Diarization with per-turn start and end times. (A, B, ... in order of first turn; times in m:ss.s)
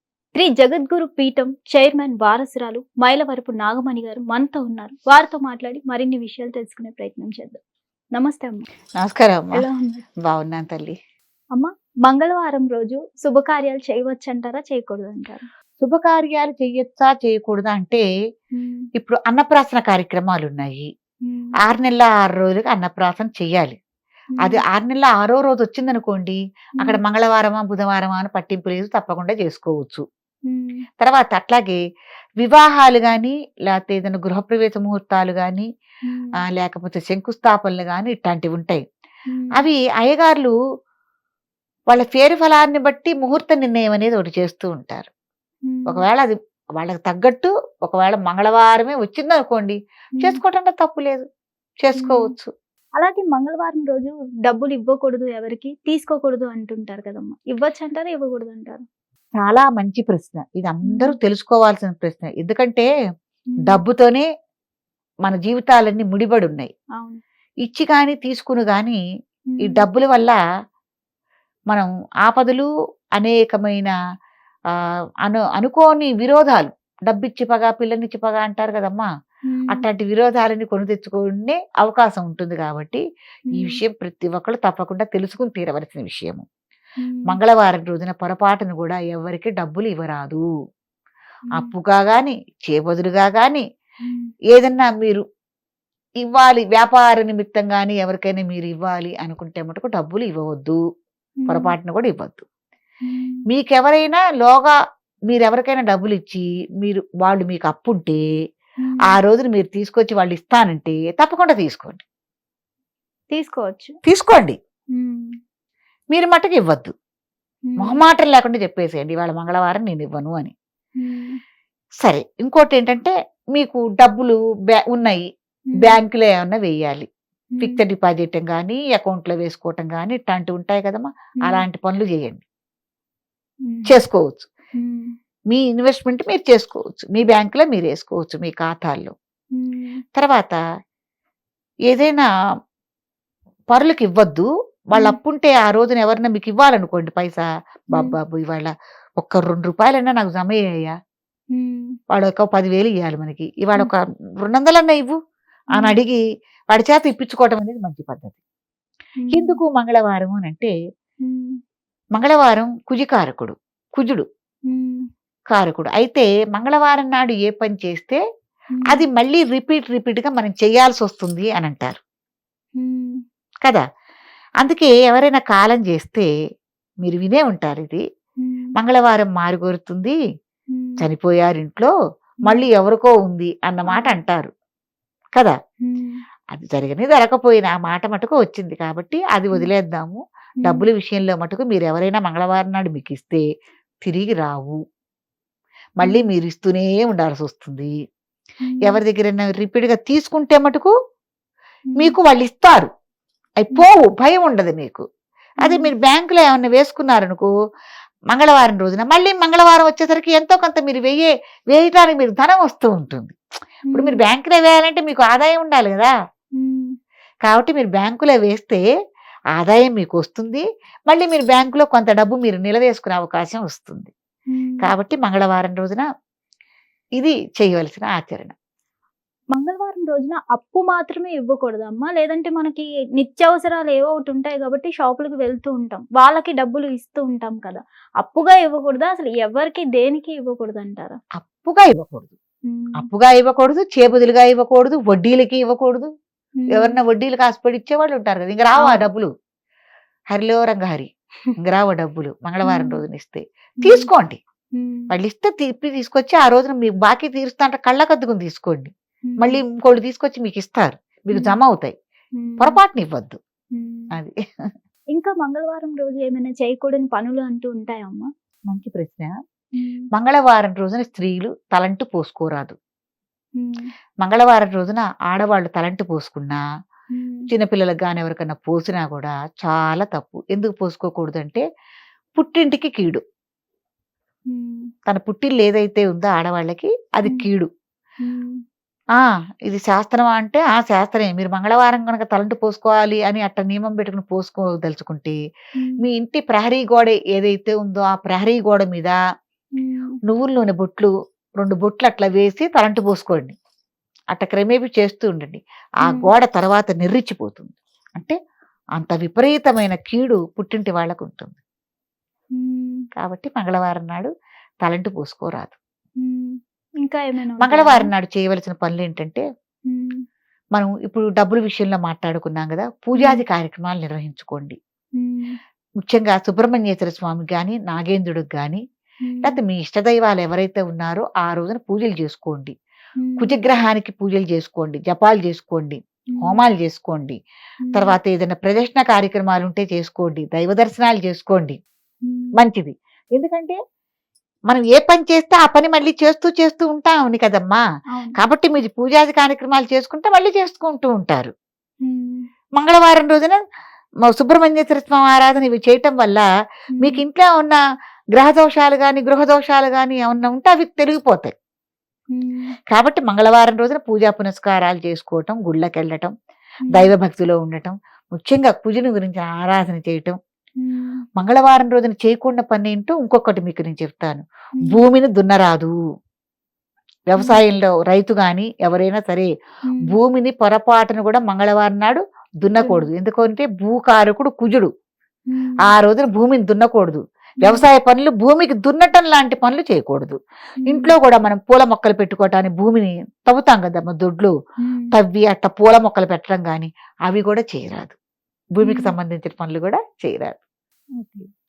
0:00.4-0:07.6 A
0:08.2-0:08.7 A
0:09.0-0:09.6 B
0:09.5-0:10.0 A
0:10.2-0:11.0 B
0:11.5-0:15.5 A
0:15.8-0:18.0 B
0:18.5-0:18.9 A
0:19.0-0:20.9 B
0:21.3-0:21.6 A
0:21.6-0:23.8 B
0:24.3-0:24.6 A
0:24.4-0:30.0 B
0:30.5-0:30.8 A
0:31.0-0:31.8 B
0:32.4-0:35.7 B
0:36.1-0:36.4 A
0:36.5-0:38.8 B
0:39.3-0:39.7 A
0:39.6-0:40.5 B
0:41.9-0:45.1 B
0:45.7-0:46.0 A
0:45.9-0:51.2 B
0:51.8-0:52.5 B
0:52.0-0:52.3 A
0:53.0-0:58.8 A
0:59.4-1:02.9 B
1:00.9-1:01.2 A
1:03.5-1:03.8 A
1:03.7-1:04.3 B
1:05.2-1:06.7 B
1:07.6-1:09.0 B
1:09.5-1:09.9 A
1:09.7-1:10.4 B
1:11.7-1:13.9 B
1:14.7-1:19.1 B
1:19.5-1:19.8 A
1:19.7-1:23.0 B
1:23.5-1:23.8 A
1:23.6-1:26.4 B
1:27.0-1:27.4 A
1:27.3-1:30.4 B
1:31.5-1:33.6 B
1:34.1-1:34.3 A
1:34.5-1:35.2 B
1:36.2-1:40.8 B
1:41.4-1:41.7 A
1:41.5-1:42.4 B
1:43.0-1:43.4 A
1:43.5-1:44.8 B
1:45.3-1:48.2 B
1:49.0-1:52.0 B
1:53.3-1:54.0 A
1:54.0-1:54.6 B
1:55.0-1:55.3 A
1:56.1-1:56.9 B
1:57.7-1:58.0 A
1:57.8-2:00.5 B
2:01.0-2:01.4 A
2:02.0-2:05.2 B
2:05.7-2:06.0 A
2:05.8-2:07.1 B
2:07.6-2:07.8 A
2:07.6-2:12.4 B
2:13.7-2:13.9 A
2:13.9-2:14.5 B
2:14.8-2:15.1 A
2:15.5-2:19.1 B
2:19.6-2:20.0 A
2:20.2-2:20.6 B
2:21.9-2:22.3 B
2:23.7-2:31.0 B
2:31.5-2:32.0 A
2:32.1-2:35.2 B
2:35.7-2:36.2 B
2:36.7-2:38.4 B
2:39.2-2:39.6 A
2:39.3-2:40.7 B
2:41.2-2:41.6 A
2:42.1-2:44.3 B
2:44.7-2:45.0 A
2:45.5-2:48.2 B
2:48.7-2:49.1 A
2:48.9-2:52.0 B
2:52.8-2:53.2 A
2:54.6-2:56.3 B
2:57.0-2:58.0 B
2:58.4-2:58.7 A
2:58.8-3:00.2 B
3:00.7-3:01.0 A
3:01.0-3:01.9 B
3:02.4-3:04.5 B
3:03.9-3:04.2 A
3:05.8-3:06.2 A
3:06.5-3:13.5 B
3:14.0-3:14.8 B
3:16.0-3:17.9 B
3:16.0-3:16.3 A
3:18.6-3:19.0 A
3:18.8-3:20.9 B
3:21.9-3:22.2 A
3:22.0-3:22.9 B
3:23.6-3:25.0 B
3:25.6-3:25.9 A
3:25.6-3:27.5 B
3:28.3-3:33.4 B
3:33.9-3:34.2 A
3:33.9-3:36.1 B
3:36.6-3:36.9 A
3:37.4-3:38.8 B
3:39.6-3:44.1 B
3:44.5-3:44.9 A
3:44.8-3:46.1 B
3:47.2-3:48.6 B
3:49.5-4:01.2 A
4:01.4-4:02.4 B
4:02.7-4:03.1 A
4:03.0-4:06.1 B
4:06.6-4:07.0 A
4:06.7-4:09.3 B
4:08.8-4:09.1 A
4:10.3-4:14.4 B
4:12.6-4:13.0 A
4:13.8-4:14.1 A
4:14.8-4:15.1 A
4:15.1-4:22.0 B
4:19.3-4:19.6 A
4:22.4-4:22.8 A
4:22.6-4:23.4 B
4:23.8-4:24.1 A
4:25.1-4:28.3 A
4:28.7-4:29.3 B
4:29.8-4:30.1 A
4:30.1-4:32.8 B
4:33.6-4:33.9 A
4:34.2-4:36.6 B
4:37.1-4:37.5 A
4:37.5-4:41.6 B
4:42.4-4:43.2 B
4:44.5-4:44.9 A
4:45.1-4:47.7 B
4:48.2-4:48.6 A
4:49.2-4:55.4 B
4:56.0-4:59.2 B
4:59.8-5:00.2 A
5:00.3-5:03.6 B
5:04.3-5:08.4 B
5:06.0-5:06.3 A
5:09.0-5:11.6 B
5:12.6-5:13.0 A
5:13.2-5:14.3 B
5:14.8-5:15.8 B
5:16.2-5:18.1 A
5:17.6-5:19.4 B
5:19.9-5:20.2 A
5:20.8-5:24.8 B
5:23.2-5:23.4 A
5:25.2-5:25.6 A
5:26.0-5:28.8 B
5:29.3-5:29.6 A
5:29.4-5:32.7 B
5:33.2-5:33.6 A
5:33.4-5:37.4 B
5:36.3-5:36.6 A
5:37.8-5:38.2 A
5:37.9-5:41.8 B
5:42.2-5:42.6 A
5:42.6-5:43.8 B
5:44.7-5:47.8 B
5:48.1-5:48.4 A
5:48.4-5:51.5 B
5:52.0-5:52.4 A
5:52.8-5:53.6 B
5:54.3-5:56.4 B
5:56.9-5:57.2 A
5:57.0-5:57.8 B
5:58.4-6:01.5 B
6:02.3-6:02.7 A
6:02.9-6:06.3 B
6:06.9-6:07.1 A
6:06.9-6:10.4 B
6:10.8-6:11.2 A
6:11.4-6:15.9 B
6:17.3-6:19.5 B
6:17.4-6:17.6 A
6:19.9-6:20.1 A
6:20.1-6:24.9 B
6:22.8-6:23.1 A
6:25.5-6:25.9 A
6:25.8-6:30.4 B
6:30.8-6:31.2 A
6:30.9-6:34.5 B
6:34.8-6:35.1 A
6:35.1-6:38.2 B
6:38.8-6:40.6 B
6:38.8-6:39.2 A